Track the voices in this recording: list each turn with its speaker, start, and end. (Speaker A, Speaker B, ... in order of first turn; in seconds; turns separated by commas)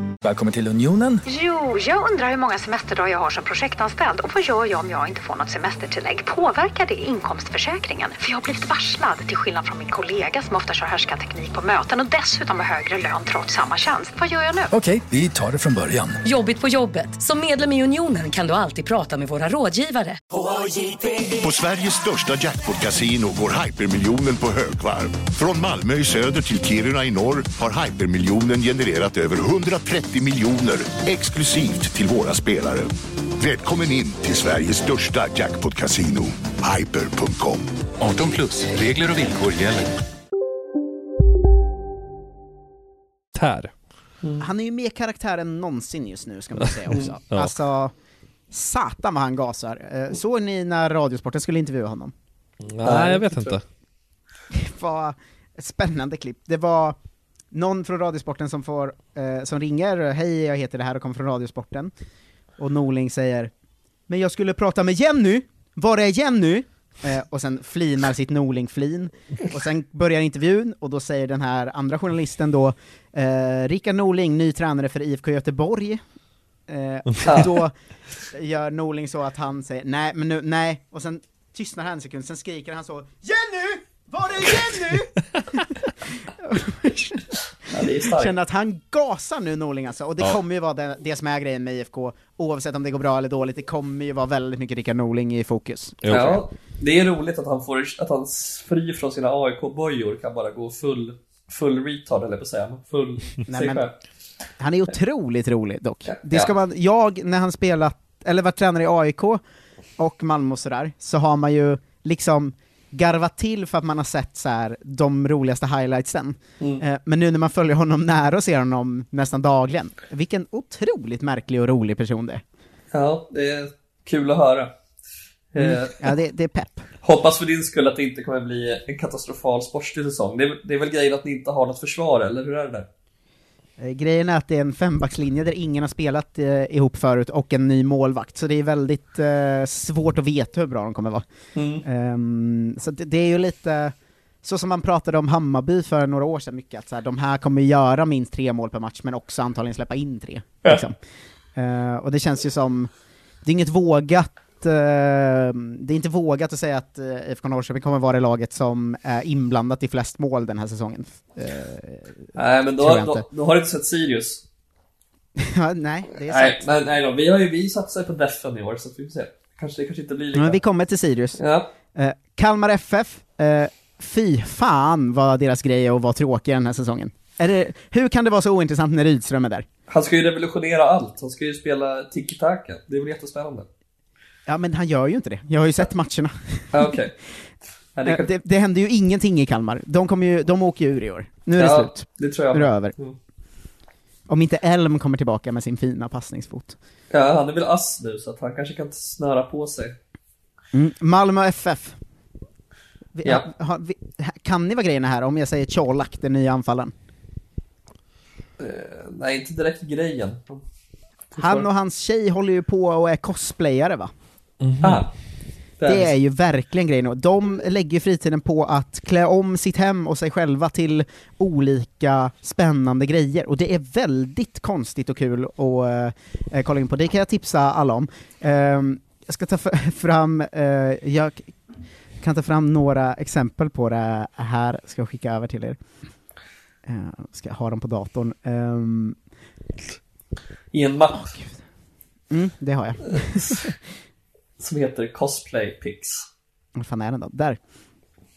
Speaker A: 0.2-1.2, Speaker B: 1.2-14.7, Speaker A: 14.7-16.2, Speaker C: 16.2-20.2, Speaker D: 21.3-39.9, Speaker E: 43.3-43.7, Speaker F: 44.4-47.9, Speaker E: 46.7-47.5, Speaker F: 48.5-52.1, Speaker E: 52.6-53.6, Speaker G: 52.8-53.6, Speaker F: 54.5-57.0, Speaker F: 57.5-61.9, Speaker F: 62.6-63.5, Speaker F: 64.1-76.0, Speaker F: 76.7-77.7, Speaker G: 77.2-77.5, Speaker F: 78.3-87.2, Speaker G: 87.7-88.3, Speaker F: 88.0-96.0, Speaker E: 96.0-96.4, Speaker G: 96.1-103.9, Speaker F: 103.5-103.8, Speaker F: 104.6-109.4, Speaker G: 106.1-106.5, Speaker F: 110.0-122.4, Speaker G: 122.9-124.7, Speaker G: 125.5-126.0, Speaker F: 125.6-126.9, Speaker G: 127.0-132.9, Speaker F: 133.8-141.2, Speaker G: 141.6-141.8, Speaker F: 141.8-151.0, Speaker F: 151.6-152.9, Speaker F: 153.4-163.3, Speaker G: 162.3-164.4, Speaker F: 165.4-166.6, Speaker G: 166.2-170.6, Speaker F: 170.3-171.4, Speaker G: 171.4-171.7, Speaker F: 171.9-179.7, Speaker G: 179.9-183.7, Speaker F: 184.5-186.9, Speaker G: 186.7-187.1, Speaker G: 187.9-188.3, Speaker F: 188.1-192.9, Speaker G: 191.6-193.2, Speaker F: 194.3-196.8, Speaker G: 197.1-200.0, Speaker F: 200.7-202.0, Speaker F: 203.2-206.9, Speaker G: 208.6-210.6, Speaker F: 211.4-214.1, Speaker G: 211.4-211.7, Speaker E: 214.6-215.1, Speaker G: 214.8-215.1, Speaker G: 215.8-216.1, Speaker F: 215.8-231.6, Speaker F: 232.2-235.8, Speaker F: 236.9-239.2, Speaker G: 240.7-241.3, Speaker F: 241.2-241.6, Speaker F: 242.3-243.6, Speaker G: 243.1-243.7, Speaker G: 244.6-246.3, Speaker F: 246.8-247.6